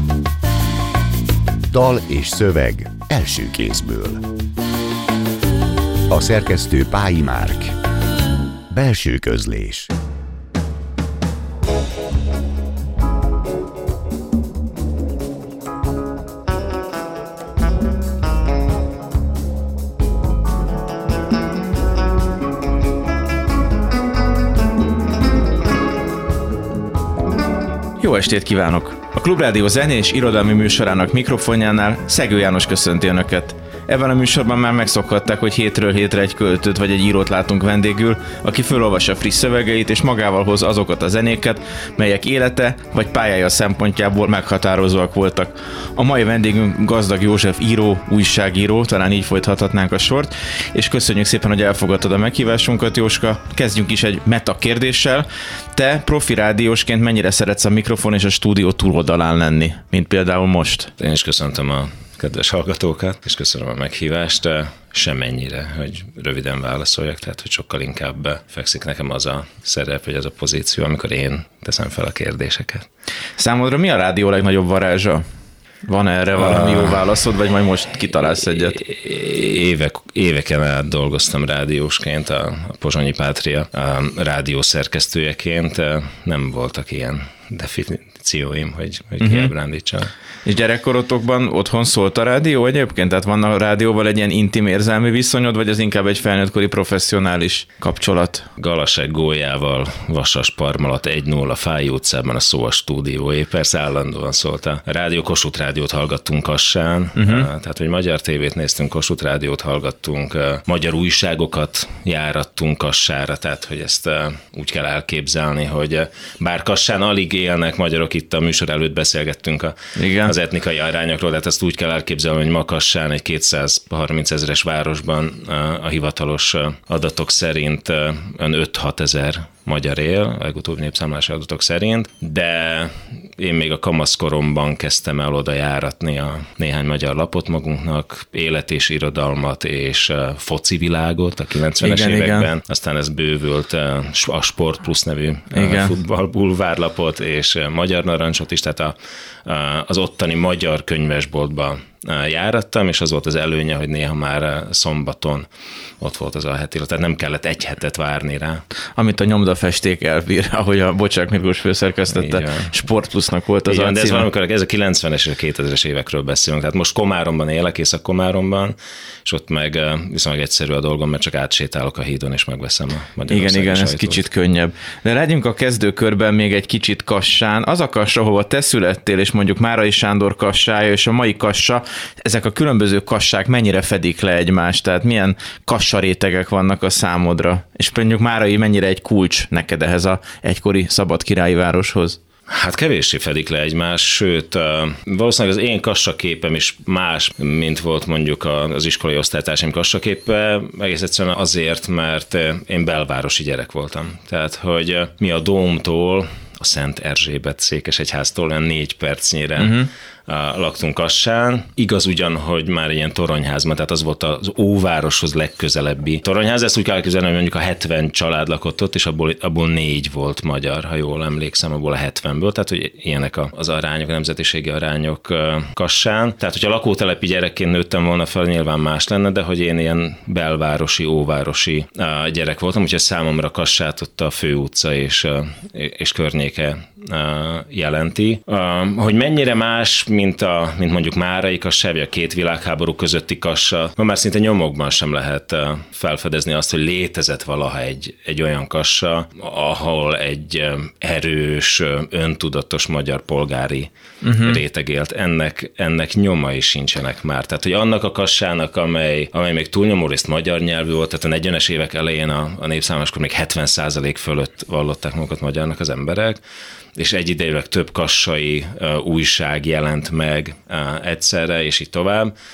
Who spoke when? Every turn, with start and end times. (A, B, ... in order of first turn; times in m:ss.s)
0:01.7-0:04.2 A
0:06.1-0:07.7 A
0:08.7-0:09.9 A
0:28.0-1:00.9 B
1:01.0-1:12.9 C
1:13.4-1:15.2 B
1:15.8-1:18.8 B
1:16.4-1:17.0 C
1:18.5-1:30.1 C
1:29.2-1:29.5 B
1:30.4-1:38.5 B
1:38.6-2:28.9 C
1:47.2-1:47.5 B
2:00.0-2:00.3 B
2:21.8-2:22.5 B
2:25.5-2:25.9 B
2:29.5-2:35.5 C
2:36.0-2:38.6 C
2:39.0-2:44.3 B
2:42.1-2:42.7 C
2:43.7-2:54.2 C
2:53.3-3:12.2 B
3:12.5-4:26.4 C
3:29.6-3:29.9 B
4:14.2-4:14.6 B
4:27.0-4:32.3 C